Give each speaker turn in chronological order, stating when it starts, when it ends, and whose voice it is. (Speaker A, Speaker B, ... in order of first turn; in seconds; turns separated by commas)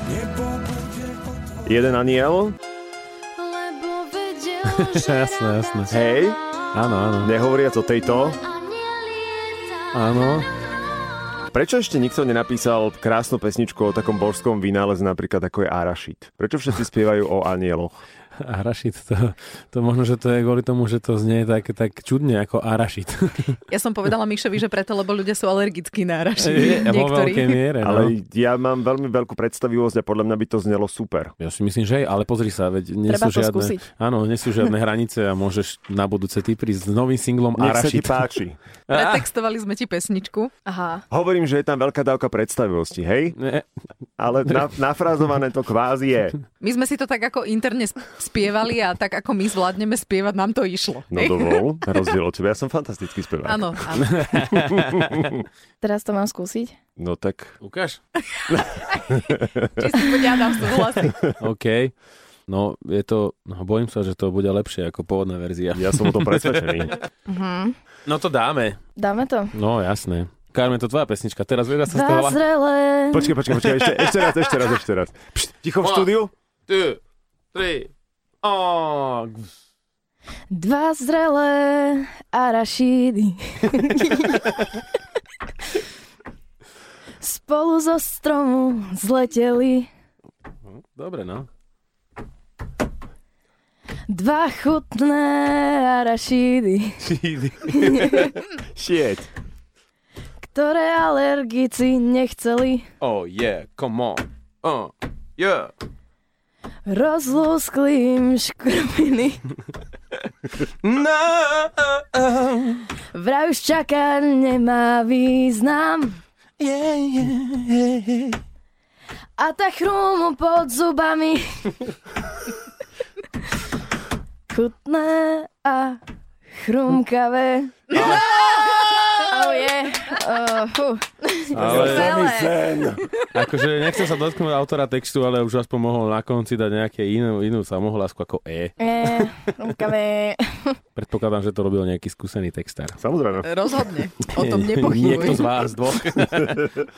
Speaker A: 1.6-2.6, Speaker B: 3.4-4.5, Speaker C: 4.1-4.4, Speaker D: 4.6-6.0, Speaker A: 5.9-6.4, Speaker D: 6.7-7.3, Speaker A: 7.2-8.4, Speaker B: 8.7-9.8, Speaker D: 9.9-10.5, Speaker A: 11.5-18.0, Speaker D: 18.4-23.6, Speaker E: 23.7-27.6, Speaker D: 26.4-28.1, Speaker A: 27.8-31.3, Speaker D: 31.4-38.3, Speaker C: 33.1-33.8, Speaker A: 37.6-38.6, Speaker D: 38.9-39.3, Speaker E: 38.9-40.5, Speaker C: 40.7-41.0, Speaker A: 41.1-43.4, Speaker A: 44.2-46.4, Speaker E: 46.6-51.7, Speaker A: 51.1-54.0, Speaker E: 53.5-54.3, Speaker D: 54.1-55.3, Speaker A: 54.9-55.3, Speaker C: 55.8-56.8, Speaker A: 57.0-57.6, Speaker D: 57.6-58.0, Speaker A: 58.6-59.9, Speaker E: 59.8-61.1, Speaker A: 60.8-61.3, Speaker D: 61.4-61.9, Speaker D: 62.5-66.9, Speaker A: 65.8-67.0, Speaker C: 67.3-67.8, Speaker D: 68.1-68.8, Speaker C: 69.0-69.5, Speaker D: 69.5-72.4, Speaker C: 71.9-73.3, Speaker A: 73.1-76.3, Speaker D: 73.6-74.4, Speaker D: 75.8-76.1, Speaker D: 76.7-77.0, Speaker D: 77.5-77.9, Speaker D: 78.4-79.5, Speaker C: 80.5-84.5, Speaker C: 87.2-89.9, Speaker D: 90.7-91.5, Speaker C: 94.1-97.0, Speaker D: 97.0-98.4, Speaker C: 97.8-98.3, Speaker A: 98.8-99.3, Speaker C: 100.4-102.8, Speaker D: 103.0-105.7, Speaker C: 106.9-109.6, Speaker D: 110.6-112.9, Speaker C: 113.1-116.2, Speaker D: 116.6-118.4, Speaker C: 119.4-121.8, Speaker C: 124.5-126.0, Speaker C: 126.6-128.1, Speaker D: 127.9-128.3, Speaker C: 129.2-132.6, Speaker D: 131.5-132.4, Speaker A: 131.6-133.0, Speaker D: 133.3-139.3, Speaker C: 138.8-140.8, Speaker D: 141.0-143.0, Speaker A: 143.0-143.5, Speaker E: 143.4-145.5, Speaker D: 144.3-146.7